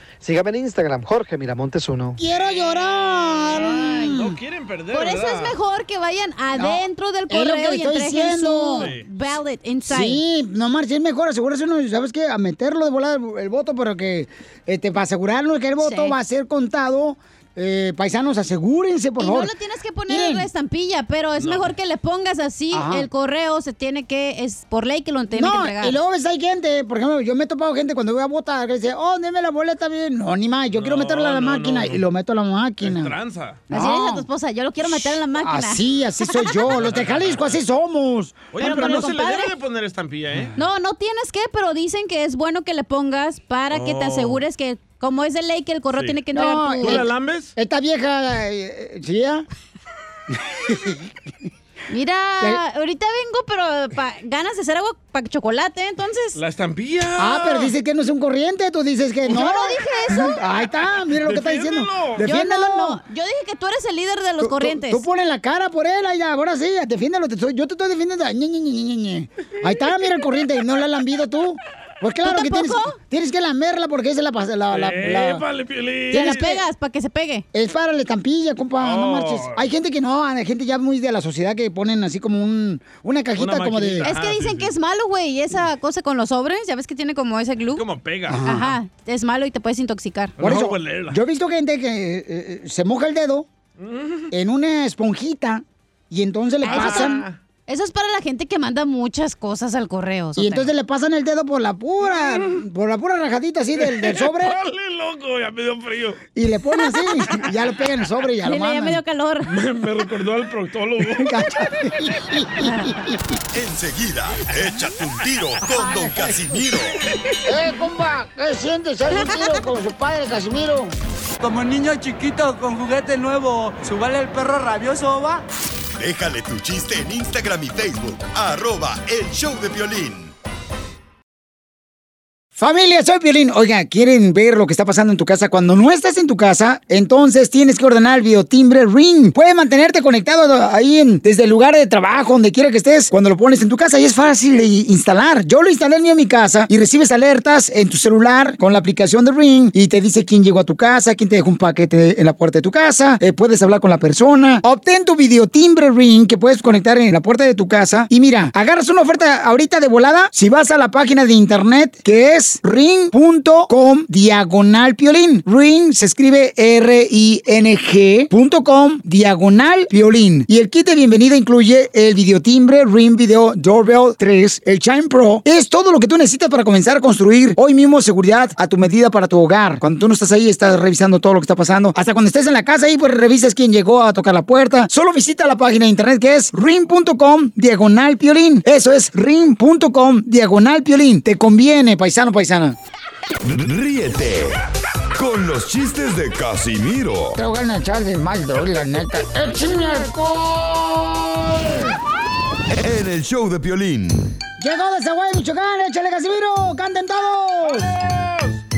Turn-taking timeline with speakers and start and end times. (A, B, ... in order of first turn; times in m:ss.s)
0:00.2-0:02.2 A
0:02.2-0:04.4 B
0:02.3-0:05.5 C
0:04.9-0:10.2 D
0:06.5-0:08.9 B
0:08.8-0:09.1 C
0:09.8-0:19.5 B
0:15.8-0:16.1 D
0:19.2-0:26.0 D
0:20.1-0:20.5 B
0:21.4-0:21.7 C
0:22.7-0:23.1 B
0:25.3-0:33.1 B
0:30.7-0:32.0 C
0:32.8-0:33.6 C
0:33.7-0:34.3 B
0:33.7-0:36.8 D
0:34.8-0:38.9 B
0:36.9-0:37.4 C
0:38.5-0:40.5 C
0:38.6-0:39.5 D
0:40.6-0:47.0 D
0:43.7-0:44.4 C
0:46.3-0:49.4 B
0:46.8-0:47.5 C
0:50.3-0:51.1 B
0:51.9-0:56.4 D
0:56.3-0:57.7 C
0:57.2-1:03.0 B
0:59.3-1:00.4 D
1:01.2-1:02.2 C
1:02.2-1:05.0 D
1:04.4-1:15.4 B
1:12.2-1:13.0 D
1:14.7-1:16.5 C
1:16.1-1:17.4 D
1:16.1-1:16.6 B
1:17.5-1:24.1 B
1:18.8-1:19.7 C
1:23.4-1:24.7 C
1:24.0-1:27.8 D
1:27.7-1:28.4 C
1:28.3-1:28.8 B
1:28.4-1:30.3 D
1:30.4-1:31.2 C
1:30.4-1:33.5 B
1:33.8-1:34.3 C
1:34.3-1:37.2 B
1:36.6-1:37.4 C
1:36.7-1:40.7 D
1:40.4-1:44.6 B
1:42.1-1:42.6 C
1:43.8-1:46.2 C
1:46.3-1:49.0 B
1:48.4-1:49.5 D
1:49.5-1:51.4 C
1:51.2-1:53.2 B
1:53.5-1:57.0 E
1:57.4-2:00.9 B
2:01.4-2:05.4 F
2:05.9-2:10.3 E
2:12.6-3:12.8 B
3:13.4-3:14.6 E
3:15.2-3:17.4 E
3:17.4-3:22.0 B
3:22.7-3:24.4 E
3:24.6-3:27.9 B
3:27.6-3:28.6 C